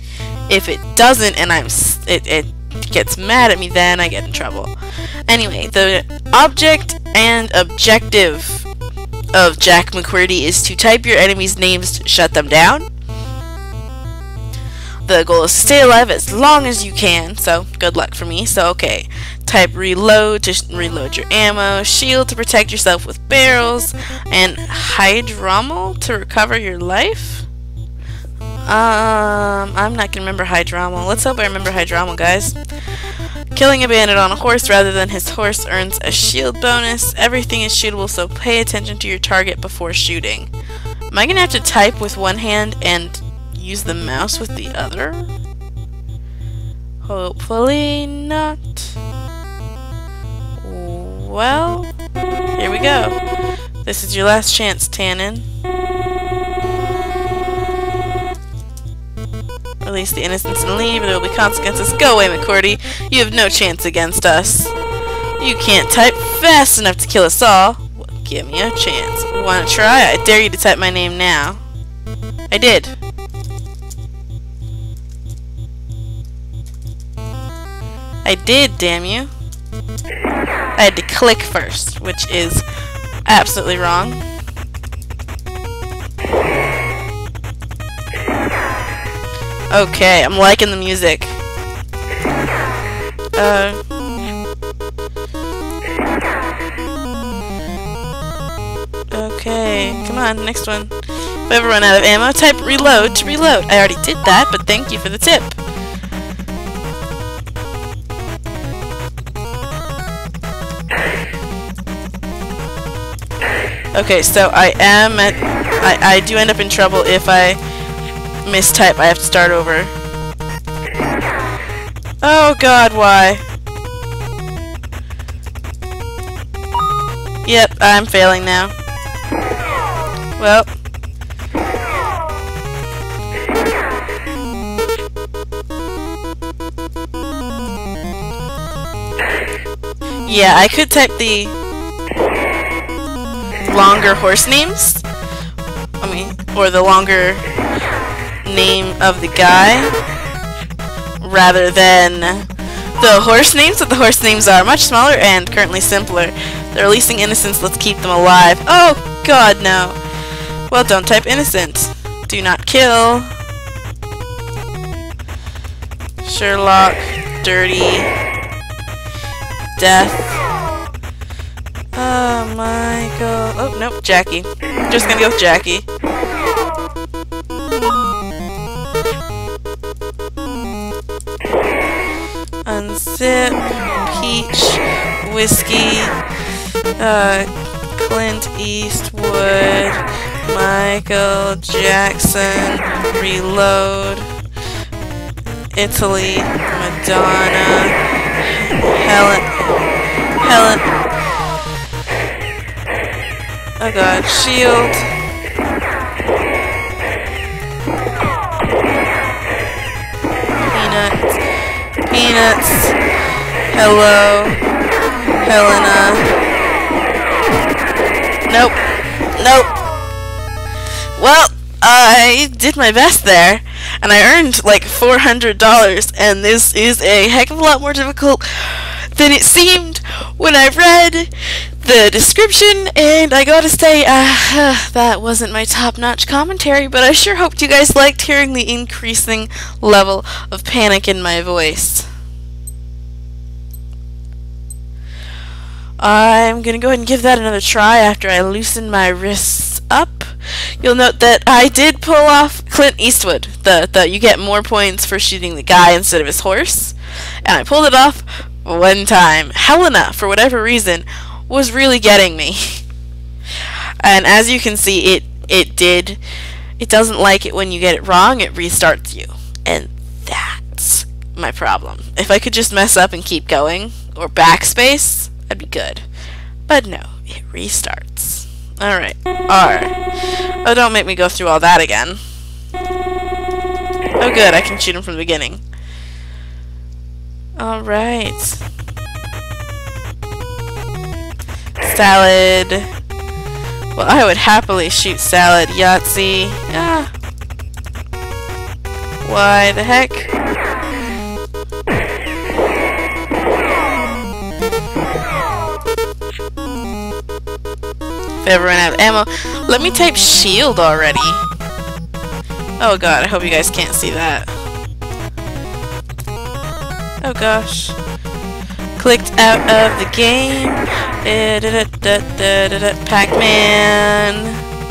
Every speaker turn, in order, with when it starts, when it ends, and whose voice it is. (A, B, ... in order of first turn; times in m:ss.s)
0:00.5-0:04.7 A
0:05.3-0:08.7 A
0:09.3-0:12.8 A
0:15.0-0:27.5 A
0:28.7-0:32.6 A
0:33.5-0:40.5 A
0:41.1-0:45.3 A
0:47.0-0:49.0 A
0:50.6-0:51.9 A
0:52.6-0:53.2 A
0:53.8-0:55.5 A
0:59.8-1:04.7 A
1:05.4-1:11.6 A
1:12.5-1:13.0 A
1:18.2-1:19.3 A
1:20.8-1:22.6 A
1:23.3-1:24.2 A
1:29.7-1:31.4 A
1:33.4-1:33.8 A
1:39.1-1:40.9 A
1:41.5-1:45.6 A
1:53.9-1:57.6 A
1:58.4-1:59.9 A
2:02.2-2:03.4 A
2:07.4-2:08.7 A
2:10.4-2:10.7 A
2:20.2-2:21.6 A
2:23.6-2:25.0 A
2:26.0-2:27.4 A
2:28.4-2:30.0 A
2:31.2-2:32.5 A
2:33.0-2:40.0 A
2:40.7-2:43.3 A
2:46.2-2:48.1 A
2:49.8-2:50.4 A
2:51.9-2:55.9 A
3:02.6-3:06.2 A
3:07.0-3:14.3 A
3:15.7-3:19.7 A
3:20.4-3:20.9 A
3:23.8-3:25.1 A
3:30.6-3:31.4 A
3:32.1-3:33.0 A
3:33.7-3:34.6 A
3:35.4-3:36.3 A
3:38.5-3:38.8 A
3:39.4-3:39.8 A
3:41.2-4:02.1 A
4:06.0-4:22.8 A
4:24.0-4:26.2 A
4:26.8-4:36.1 A
4:36.7-4:40.0 A
4:40.6-4:42.2 A
4:44.2-4:45.6 A
4:47.6-4:48.6 A
4:51.8-4:52.9 A
4:54.0-4:57.1 A
4:59.2-5:00.3 A
5:08.4-5:11.5 A
5:12.8-5:14.5 A
5:17.2-5:18.0 A
5:19.0-5:24.6 A